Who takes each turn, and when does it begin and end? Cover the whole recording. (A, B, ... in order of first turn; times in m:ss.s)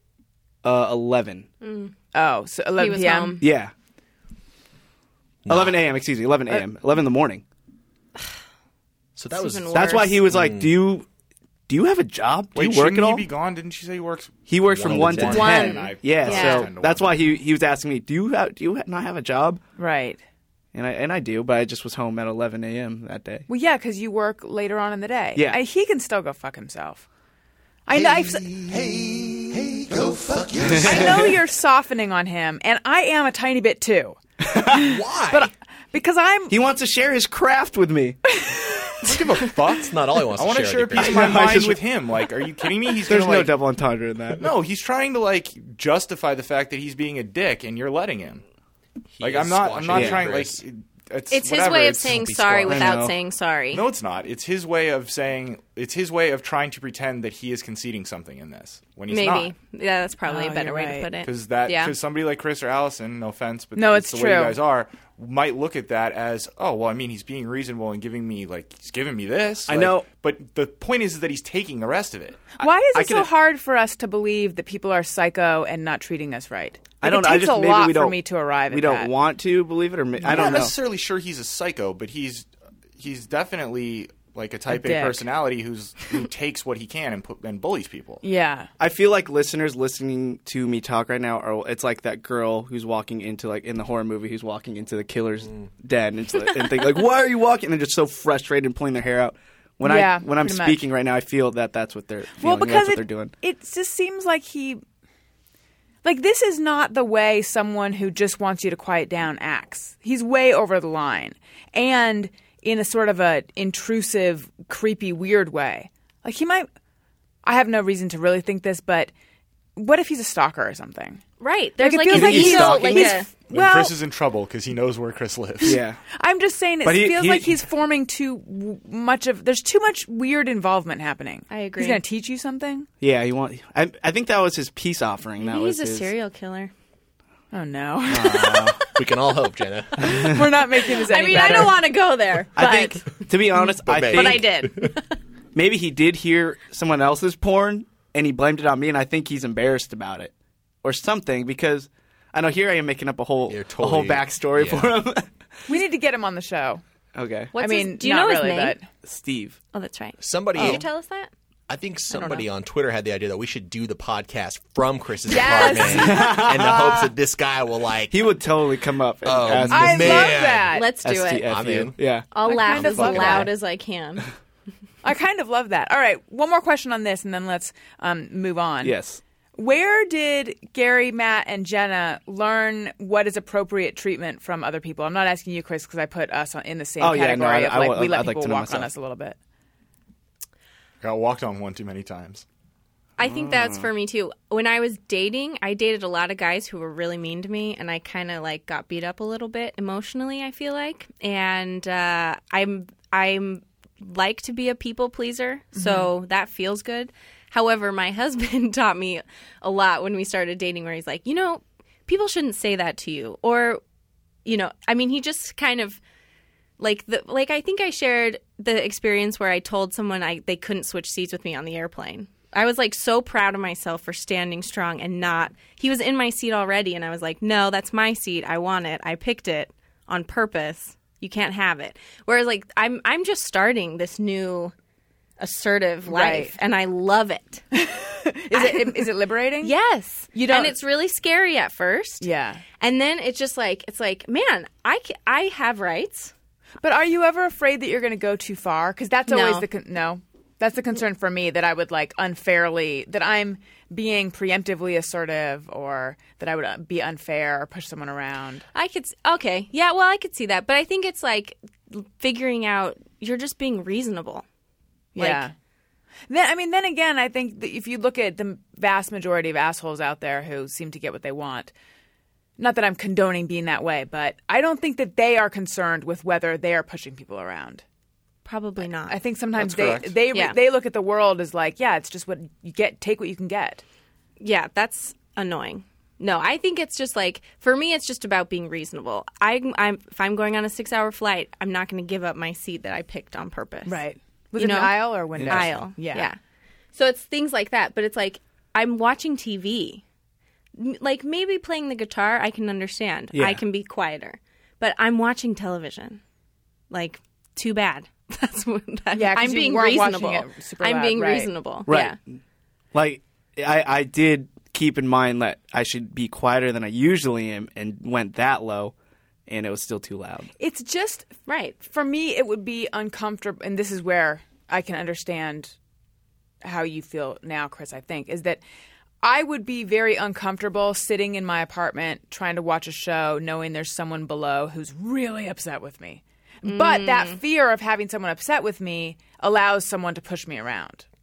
0:00.6-0:01.5 A
0:01.6-0:01.9 B
0:02.1-0:03.4 C
0:02.8-0:03.4 B
0:03.4-0:03.7 A
0:05.5-0:05.8 D
0:05.5-0:07.4 A
0:09.2-0:10.8 D
0:09.3-0:10.2 B
0:09.7-0:11.1 A
0:11.7-0:13.3 A
0:12.6-0:17.1 E
0:14.5-0:19.6 A
0:14.7-0:15.6 D
0:15.2-0:16.7 B
0:15.4-0:15.8 C
0:19.8-0:20.2 C
0:20.7-0:23.5 A
0:23.5-0:27.1 C
0:25.4-0:25.6 A
0:27.9-0:28.5 C
0:28.0-0:31.3 F
0:30.7-0:31.3 A
0:30.8-0:36.6 C
0:34.4-0:34.8 A
0:34.7-0:35.5 D
0:36.5-0:38.2 A
0:38.3-0:39.1 C
0:39.0-0:43.5 E
0:39.8-0:41.5 D
0:41.0-0:41.8 A
0:43.1-0:44.5 A
0:44.4-0:48.4 E
0:49.2-0:50.6 D
0:49.2-0:52.7 E
0:49.9-0:50.3 A
0:51.3-0:53.8 B
0:52.7-0:53.2 A
0:53.7-0:59.5 E
0:59.1-1:01.9 B
1:00.3-1:01.1 C
1:01.2-1:12.5 E
1:03.8-1:04.6 C
1:09.7-1:10.1 A
1:12.6-1:13.3 A
1:12.6-1:19.1 C
1:17.0-1:20.7 A
1:20.2-1:28.2 E
1:24.7-1:25.2 C
1:28.2-1:28.7 C
1:28.8-1:43.3 A
1:39.8-1:40.9 C
1:42.4-1:44.8 C
1:46.0-1:56.7 C
1:57.4-1:59.1 C
1:59.8-2:01.2 C
2:01.4-2:03.3 B
2:01.8-2:04.0 C
2:02.1-2:03.2 A
2:03.5-2:05.8 E
2:05.6-2:06.0 A
2:06.1-2:12.9 C
2:06.8-2:07.6 A
2:11.5-2:12.0 B
2:13.0-2:16.1 A
2:15.4-2:16.7 B
2:17.5-2:18.8 C
2:18.1-2:18.8 A
2:19.0-2:20.4 D
2:20.0-2:21.8 C
2:20.9-2:25.1 B
2:22.6-2:24.4 A
2:23.8-2:24.9 D
2:25.5-2:30.3 A
2:30.8-2:35.3 A
2:33.5-2:35.0 D
2:35.7-2:36.8 C
2:37.2-2:37.5 A
2:37.5-2:38.8 B
2:37.6-2:38.9 C
2:39.0-2:39.6 A
2:39.7-2:41.3 B
2:40.2-2:40.8 D
2:41.7-2:48.2 D
2:42.1-2:42.4 B
2:45.3-2:46.4 C
2:45.3-2:46.0 B
2:46.1-2:47.1 A
2:48.1-2:50.4 A
2:49.2-2:50.8 D
2:49.7-2:50.9 C
2:50.7-2:51.5 B
2:51.0-2:52.3 A
2:51.4-2:52.0 D
2:52.3-2:54.3 B
2:52.4-2:53.5 C
2:52.8-2:53.4 D
2:55.0-2:59.0 C
2:58.8-2:59.2 A
2:59.6-3:09.4 C
3:07.0-3:08.9 A
3:11.0-3:12.4 E
3:13.2-3:33.8 B
3:13.2-3:13.9 A
3:25.7-3:26.1 C
3:34.4-3:36.0 B
3:36.8-3:54.7 B
3:55.4-3:57.6 B
3:56.1-3:56.6 C
3:57.7-3:59.7 C
3:58.5-3:59.1 B
3:59.6-4:02.3 B
4:00.3-4:00.7 C
4:02.2-4:02.6 C
4:02.8-4:06.3 B
4:06.8-4:18.6 C
4:09.3-4:09.6 B
4:18.7-4:24.4 B
4:25.2-4:25.5 B
4:25.2-4:25.5 C
4:26.3-4:31.7 C
4:32.6-4:37.8 C
4:38.4-4:39.2 B
4:39.1-4:43.8 C
4:39.6-4:40.1 E
4:44.4-4:54.0 B
4:53.9-4:56.3 C
4:54.6-4:56.4 B
4:55.4-4:55.8 A
4:57.0-5:00.0 B
5:00.8-5:06.2 B
5:03.3-5:03.6 A
5:06.9-5:12.2 B
5:09.2-5:11.5 C
5:11.9-5:12.4 A
5:12.9-5:18.9 A
5:19.5-5:20.5 A
5:20.6-5:21.3 C
5:21.5-5:21.8 B
5:21.8-5:25.8 C
5:26.6-5:28.6 C
5:29.2-5:41.0 C
5:36.6-5:37.4 B